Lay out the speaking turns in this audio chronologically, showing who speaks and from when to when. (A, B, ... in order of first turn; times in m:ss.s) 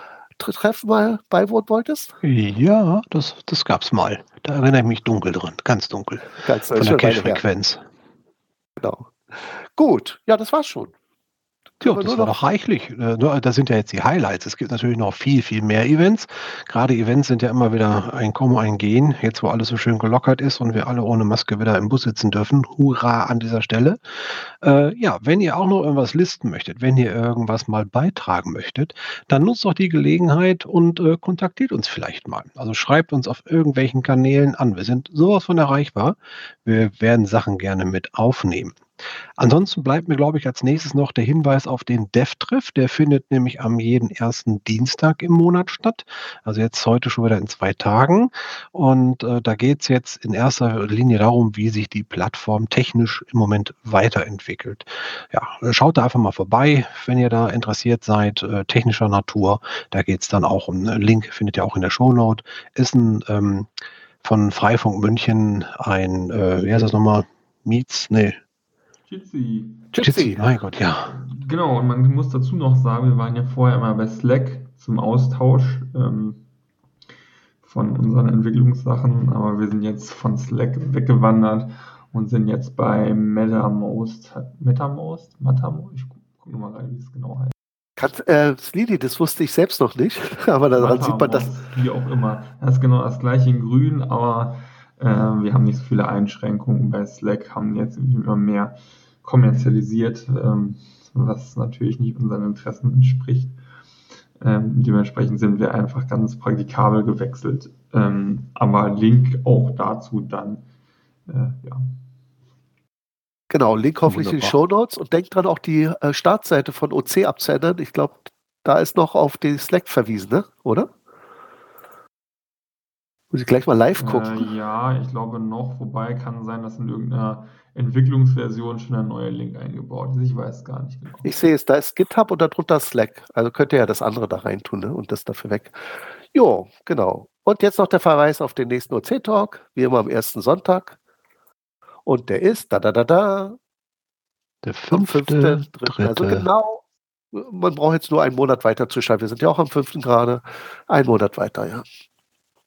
0:00.4-0:02.1 A
0:02.2-0:07.8 B
0:06.4-0:07.4 A
0:08.8-0:10.9 A
0:11.8-0:12.3 A
0:11.8-0:24.0 B
0:24.6-0:38.8 B
0:39.4-1:03.7 B
1:04.2-1:08.4 B
1:09.1-1:09.9 C
1:09.9-1:10.4 A
1:10.0-1:11.1 B
1:11.0-1:16.4 C
1:17.6-1:27.5 C
1:28.0-1:31.5 A
1:30.8-1:43.5 C
1:44.4-1:50.6 C
1:51.3-1:51.9 C
1:53.5-2:00.9 A
1:54.1-1:54.6 B
2:03.3-2:04.5 A
2:04.0-2:11.3 C
2:11.2-2:15.8 A
2:16.3-2:21.0 A
2:22.0-2:23.6 A
2:24.6-2:26.5 B
2:24.9-2:31.8 A